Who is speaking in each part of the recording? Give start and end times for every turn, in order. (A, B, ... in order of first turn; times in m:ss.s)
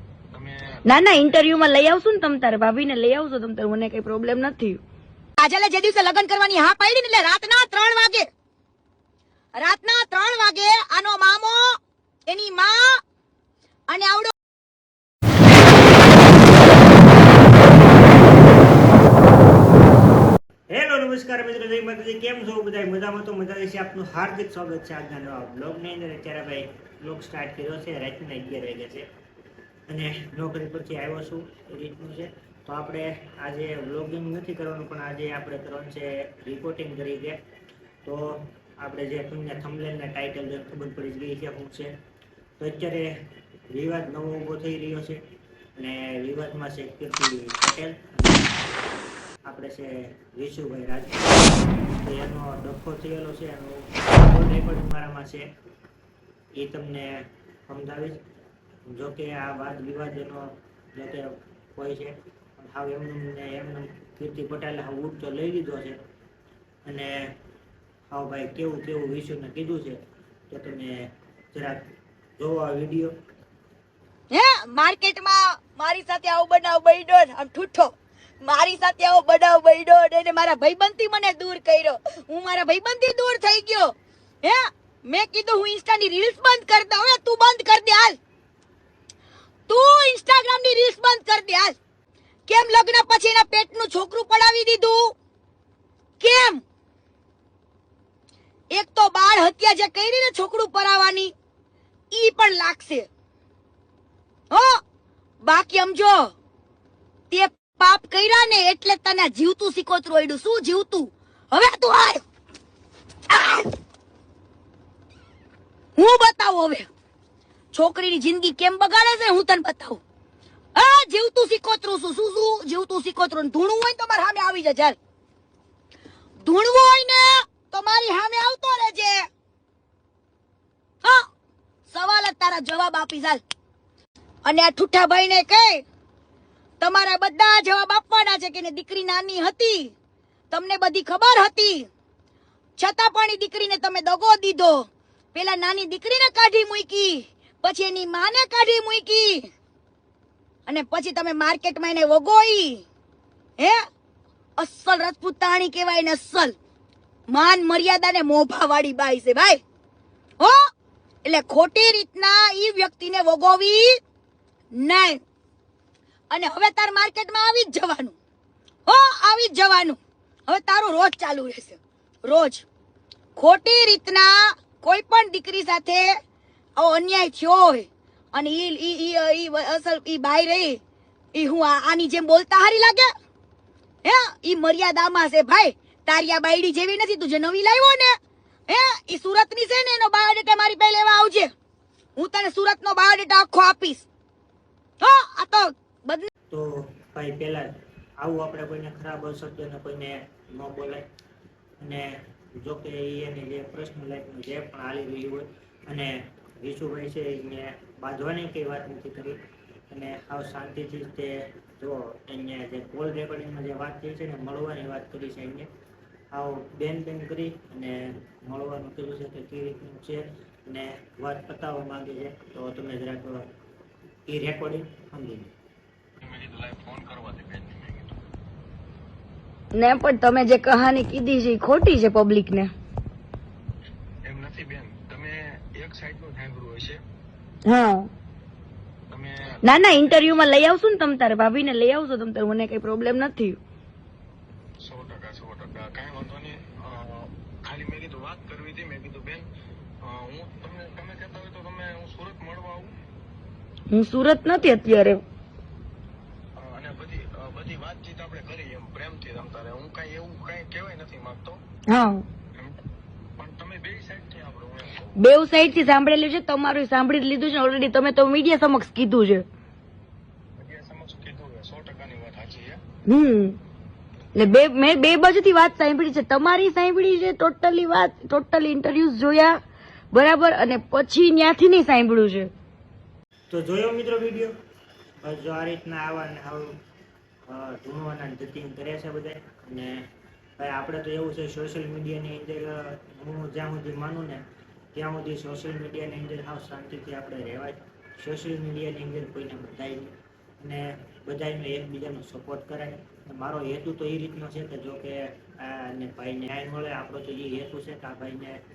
0:00.3-0:00.8 A
0:00.8-0:04.8 B
0:05.4-0:08.3 C
0:09.6-0:11.8 C
0:12.3-0:13.0 C
0:13.9-0:14.3 C
0:20.7-0:29.0 D
0:29.9-0:37.4 D
0:38.0-0:41.9 D
0:42.6-0:43.2 D
0:43.7-0:45.2 D
0:45.8-0:48.5 D
0:49.4-0:55.5 D
0:56.6-0:58.2 D
0:58.9-1:06.0 D
1:06.8-1:07.3 D
1:08.1-1:10.0 D
1:10.5-1:11.9 D
1:12.4-1:13.2 D
1:14.3-1:28.2 C
1:29.7-1:31.8 C
1:32.5-1:35.1 C
1:36.2-1:36.6 C
1:38.7-1:41.3 C
1:42.1-1:43.1 C
1:44.5-1:44.8 C
1:45.4-1:46.3 C
1:47.3-1:52.2 C
1:53.3-1:53.7 C
1:55.9-1:56.8 C
1:57.7-2:00.0 C
2:00.7-2:05.0 C
2:06.4-2:09.3 C
2:11.9-2:13.4 C
2:14.4-2:15.8 C
2:16.8-2:19.9 C
2:20.5-2:21.9 C
2:22.8-2:29.5 C
2:30.6-2:32.8 C
2:34.6-2:36.6 C
2:37.3-2:39.6 C
2:41.2-2:44.0 C
2:44.7-2:45.2 C
2:46.3-2:48.2 C
2:48.8-2:52.6 C
2:53.4-2:56.1 C
2:56.8-3:00.8 C
3:01.3-3:03.1 C
3:04.0-3:08.2 C
3:08.7-3:11.5 C
3:12.2-3:14.0 C
3:15.0-3:16.3 C
3:16.5-3:21.0 D
3:21.8-3:29.4 D
3:29.9-3:35.7 D
3:36.3-3:43.5 D
3:44.3-3:45.5 D
3:46.2-3:48.2 A
3:49.7-3:52.7 B
3:54.2-3:57.0 A
3:57.6-3:58.1 B
3:59.1-4:00.5 A
3:59.6-4:03.6 B
4:04.8-4:09.5 A
4:10.0-4:12.9 A
4:13.9-4:15.2 B
4:16.6-4:21.6 A
4:21.9-4:22.2 B
4:23.4-4:25.2 A
4:25.2-4:29.4 B
4:30.6-4:32.8 A
4:33.0-4:33.6 B
4:34.3-4:39.6 B
4:40.1-4:42.5 B
4:43.5-4:44.5 D
4:45.2-4:46.8 D
4:47.5-5:08.6 D